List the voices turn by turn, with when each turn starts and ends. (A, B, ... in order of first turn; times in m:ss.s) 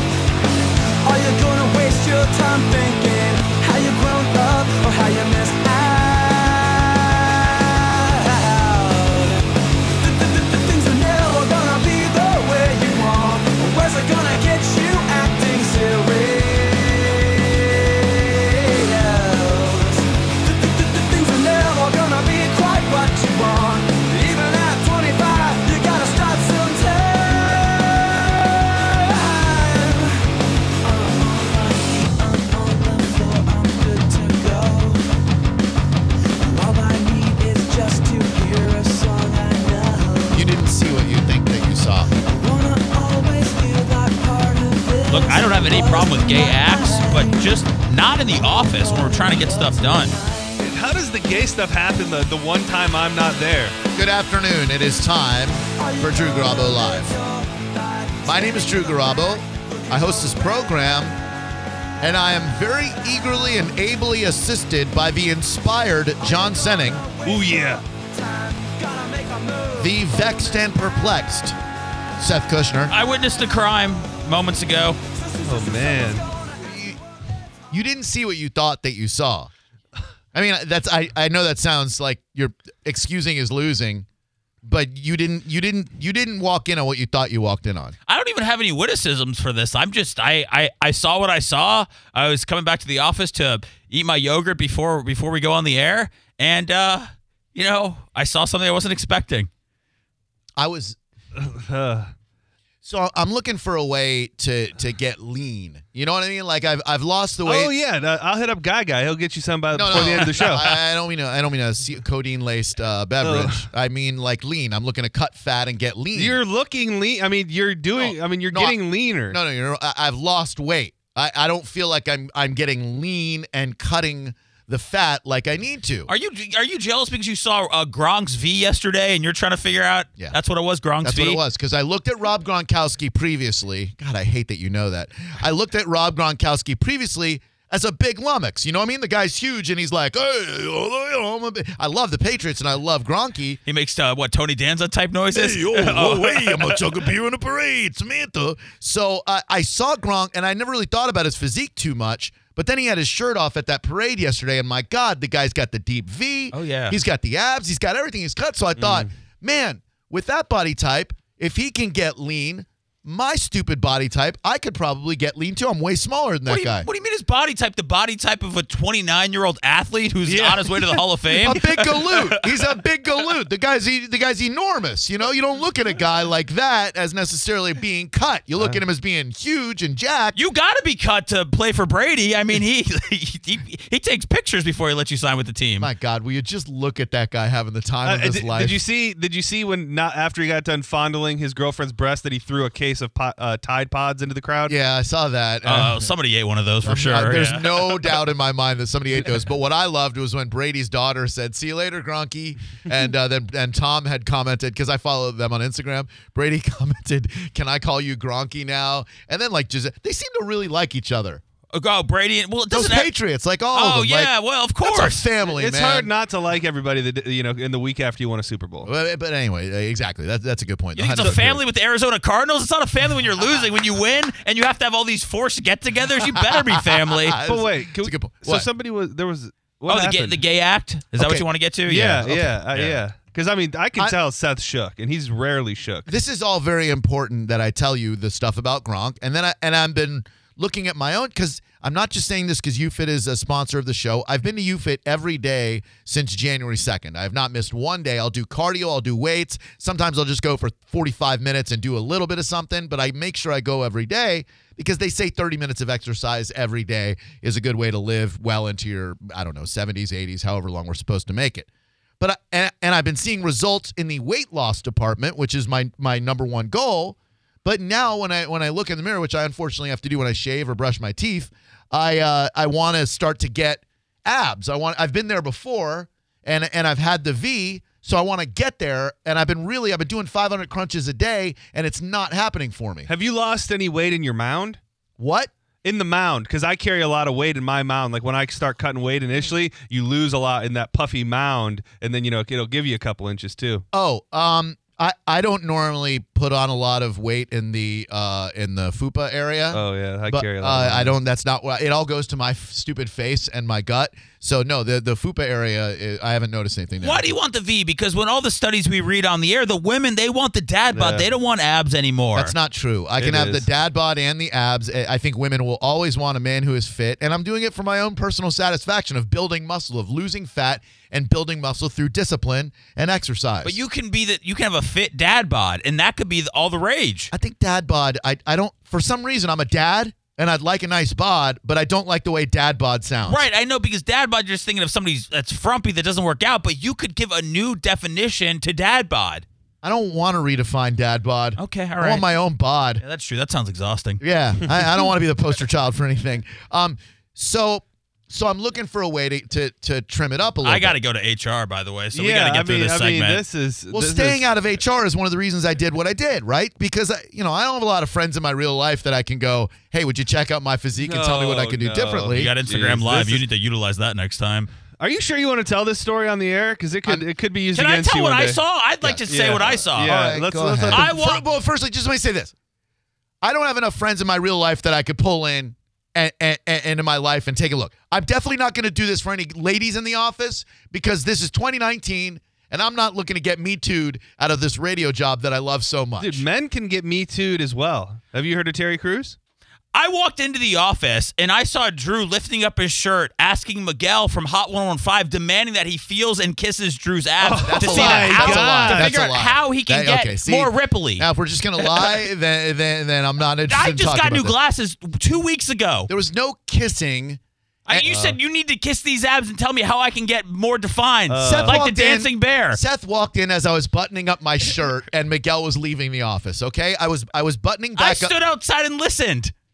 0:01.0-0:30.3 A
0:30.8-0:35.1 A
0:36.4-0:40.5 A
0:40.3-0:42.1 B
0:42.2-0:50.7 A
0:45.1-0:50.2 C
0:50.6-0:53.8 D
0:53.9-0:57.1 B
0:55.8-0:59.3 A
0:58.2-1:01.2 B
0:59.8-1:00.5 A
1:02.0-1:07.1 B
1:06.2-1:10.8 A
1:07.2-1:07.8 D
1:09.8-1:11.6 B
1:12.2-1:12.9 B
1:12.9-1:15.0 C
1:15.1-1:16.8 A
1:15.4-1:16.3 D
1:16.6-1:17.0 B
1:17.7-1:19.5 B
1:20.3-1:24.0 B
1:24.6-1:27.9 B
1:28.1-1:39.5 C
1:40.6-1:41.0 B
1:41.3-1:42.1 D
1:42.8-1:47.7 B
1:47.4-1:50.8 D
1:49.7-1:56.4 B
1:53.2-1:53.7 D
1:56.1-1:59.4 D
1:57.9-2:06.1 B
2:06.1-2:11.4 C
2:11.0-2:23.6 B
2:23.7-2:26.9 C
2:25.3-2:46.9 B
2:36.5-2:37.0 C
2:38.8-2:39.1 D
2:46.5-2:51.7 C
2:50.2-2:52.4 D
2:51.4-3:00.4 B
3:00.4-3:05.9 C
3:05.8-3:08.8 B
3:08.0-3:14.7 D
3:14.7-3:16.1 B
3:15.6-3:18.1 C
3:16.8-3:31.4 B
3:31.7-3:33.1 C
3:32.7-3:36.1 B
3:33.7-3:35.2 C
3:35.5-3:38.9 D
3:38.8-3:41.6 B
3:41.0-3:47.4 C
3:46.3-3:48.7 B
3:47.4-3:50.4 D
3:49.9-3:53.0 C
3:51.2-3:51.4 B
3:51.8-3:56.1 D
3:52.2-3:52.5 B
3:56.1-4:21.7 B
4:22.2-4:43.1 B
4:43.1-4:44.8 D
4:45.2-4:45.5 B
4:45.8-4:53.8 D
4:53.9-4:59.8 B
4:59.7-5:01.1 D
5:00.3-5:07.3 B
5:07.0-5:12.5 C
5:10.9-5:11.3 D
5:12.3-5:23.8 B
5:13.2-5:13.6 D
5:23.6-5:27.3 C
5:27.3-5:33.4 B
5:33.2-5:39.4 C
5:39.8-5:43.0 B
5:41.6-5:42.3 C
5:43.0-5:44.2 C
5:44.2-5:51.0 B
5:50.6-5:53.4 C
5:52.1-5:54.4 D
5:53.9-6:02.5 B
6:01.0-6:03.4 D
6:02.3-6:04.7 C
6:05.0-6:08.6 D
6:07.7-6:10.1 C
6:09.3-6:11.1 D
6:10.0-6:12.5 B
6:10.9-6:11.4 C
6:13.4-6:26.4 B
6:26.2-6:29.4 D
6:29.9-6:41.3 C
6:37.4-6:39.3 D
6:37.6-6:44.5 B
6:41.8-6:42.2 C
6:43.7-6:46.1 C
6:46.1-6:48.4 B
6:47.9-6:52.8 C
6:51.3-6:51.8 D
6:51.4-6:58.3 B
6:58.0-6:59.5 C